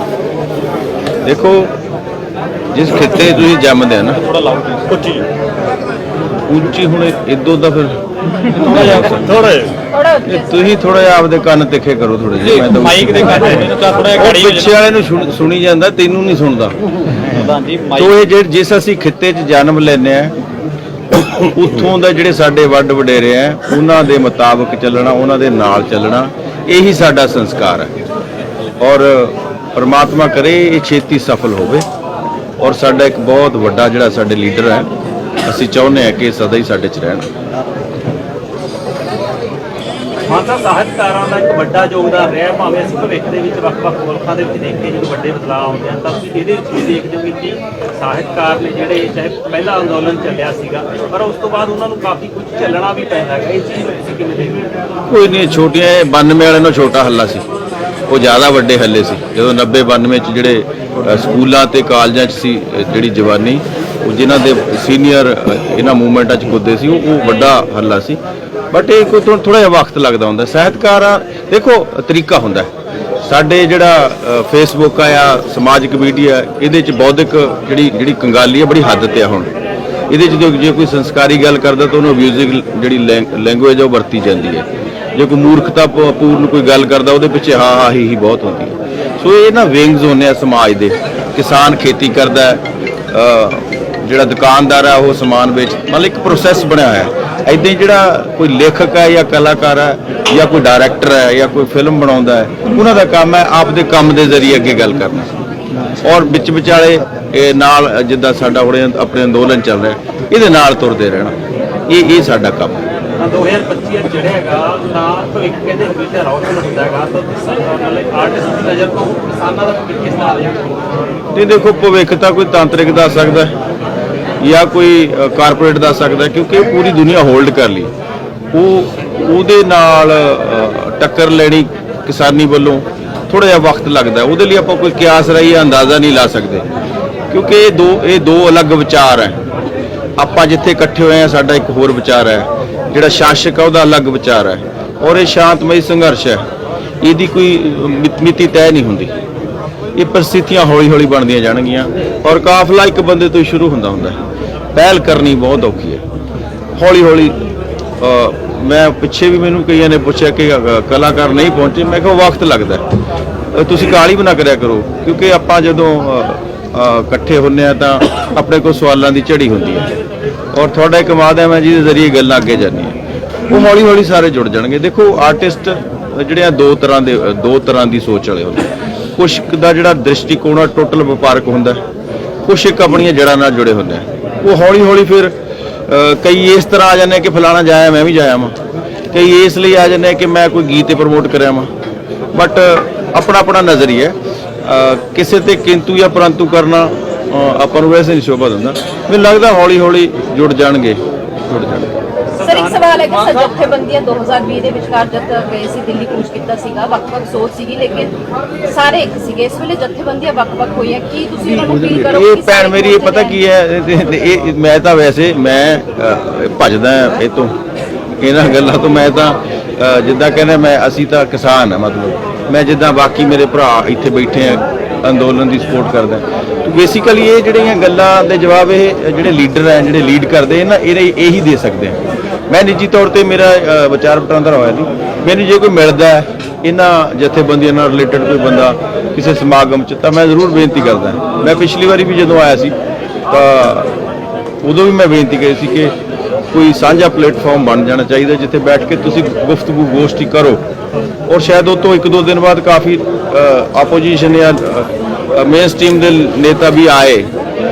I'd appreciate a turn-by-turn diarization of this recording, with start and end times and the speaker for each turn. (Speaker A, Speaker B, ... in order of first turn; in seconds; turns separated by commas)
Speaker A: 1.2-1.7, Speaker A: 2.7-4.2, Speaker B: 4.2-5.3, Speaker A: 6.5-8.0, Speaker A: 8.5-9.6, Speaker B: 8.7-9.7, Speaker C: 9.9-10.6, Speaker A: 10.2-16.7, Speaker B: 12.4-14.7, Speaker B: 17.2-18.1, Speaker A: 17.9-20.4, Speaker A: 21.1-27.9, Speaker A: 28.8-31.8, Speaker A: 32.6-34.9, Speaker A: 35.4-37.3, Speaker D: 40.3-54.7, Speaker A: 55.1-57.5, Speaker A: 58.1-68.2, Speaker A: 68.7-72.7, Speaker A: 73.2-79.5, Speaker A: 80.1-105.3, Speaker A: 106.0-111.3, Speaker A: 111.9-112.8, Speaker D: 113.2-120.8, Speaker A: 121.3-123.5, Speaker A: 124.4-127.9, Speaker A: 128.5-136.7, Speaker A: 137.3-139.4, Speaker A: 140.2-146.4, Speaker A: 147.0-149.1, Speaker A: 149.9-154.2, Speaker A: 154.7-156.0, Speaker A: 156.8-157.4, Speaker A: 158.0-162.8, Speaker A: 163.5-169.9, Speaker A: 170.5-173.0, Speaker A: 173.5-181.8, Speaker A: 182.4-185.3, Speaker A: 185.9-188.5, Speaker A: 189.1-191.7, Speaker A: 192.3-202.0, Speaker D: 202.3-203.5, Speaker C: 202.4-208.1, Speaker C: 208.7-213.4, Speaker A: 211.4-217.5, Speaker A: 218.2-232.0, Speaker A: 232.5-242.7, Speaker A: 243.3-243.9, Speaker A: 244.6-245.9, Speaker A: 246.5-250.6, Speaker A: 251.3-257.3